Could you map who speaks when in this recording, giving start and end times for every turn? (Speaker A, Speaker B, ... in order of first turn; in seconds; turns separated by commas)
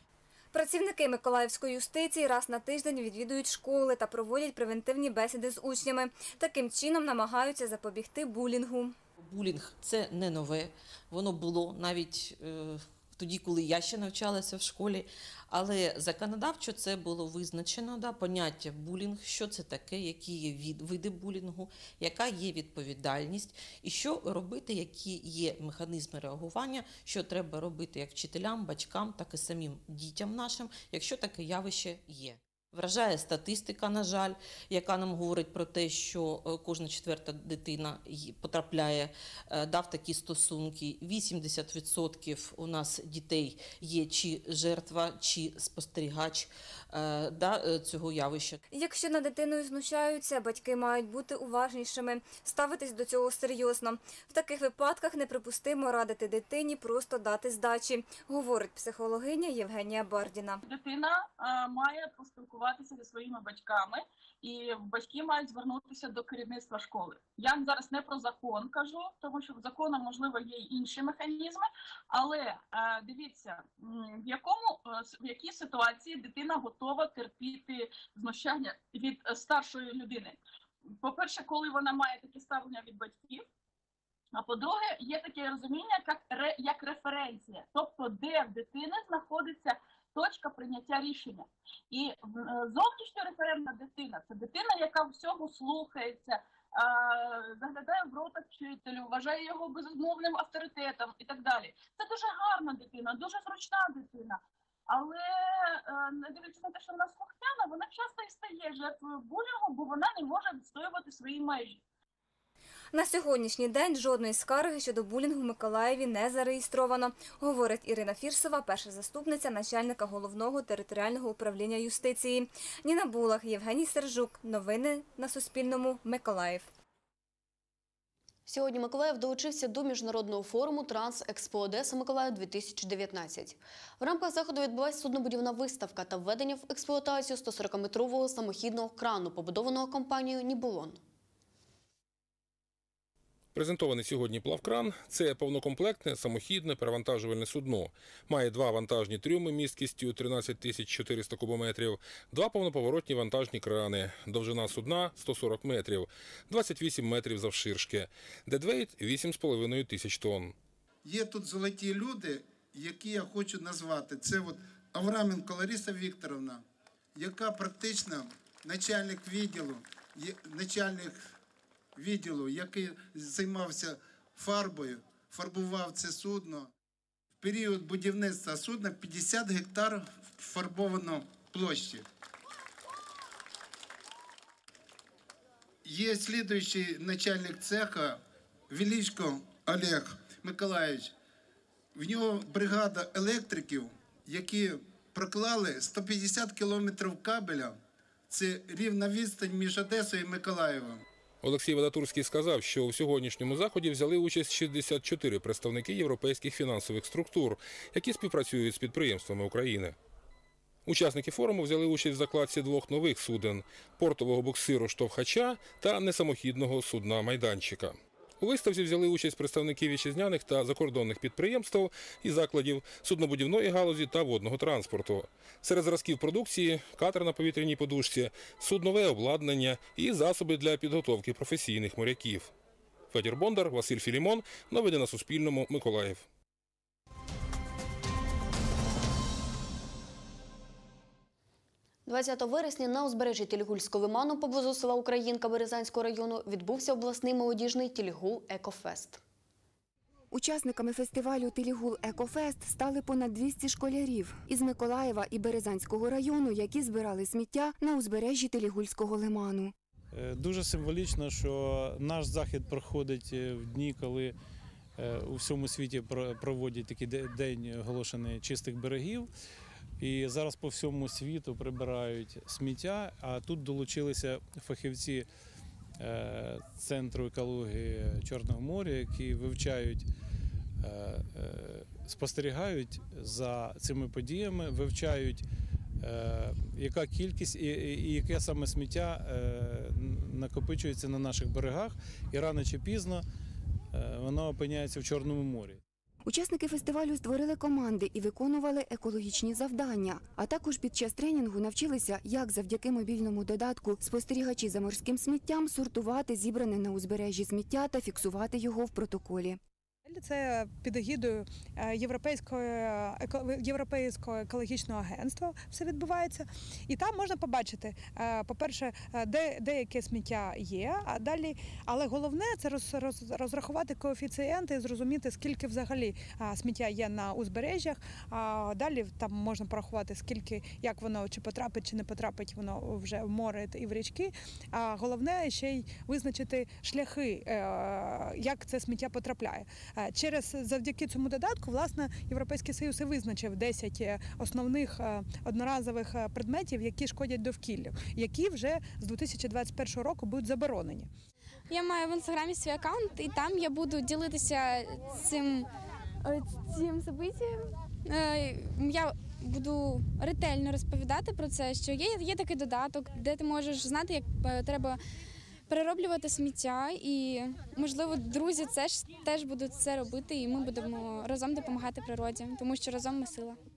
Speaker A: 0.5-8.9, Speaker B: 9.2-48.6, Speaker A: 48.7-60.6, Speaker C: 60.6-80.4, Speaker C: 81.0-83.5, Speaker C: 84.4-111.8, Speaker A: 112.9-126.7, Speaker D: 128.5-141.0, Speaker E: 143.6-160.6, Speaker F: 161.1-166.6, Speaker F: 167.2-171.2, Speaker F: 172.0-176.7, Speaker F: 177.4-182.0, Speaker F: 185.8-188.2, Speaker F: 188.7-191.1, Speaker F: 192.0-197.8, Speaker F: 198.3-201.0, Speaker E: 201.4-210.0, Speaker E: 210.9-232.5, Speaker E: 233.1-236.2, Speaker D: 242.1-249.2, Speaker G: 250.3-259.7, Speaker H: 260.1-264.4, Speaker H: 265.0-269.3, Speaker H: 270.0-275.3, Speaker H: 276.0-280.1, Speaker H: 280.8-285.5, Speaker H: 286.0-293.2, Speaker H: 293.9-295.8, Speaker G: 296.2-309.6, Speaker I: 310.1-351.1, Speaker J: 351.7-355.7, Speaker J: 356.2-365.0, Speaker J: 365.7-373.6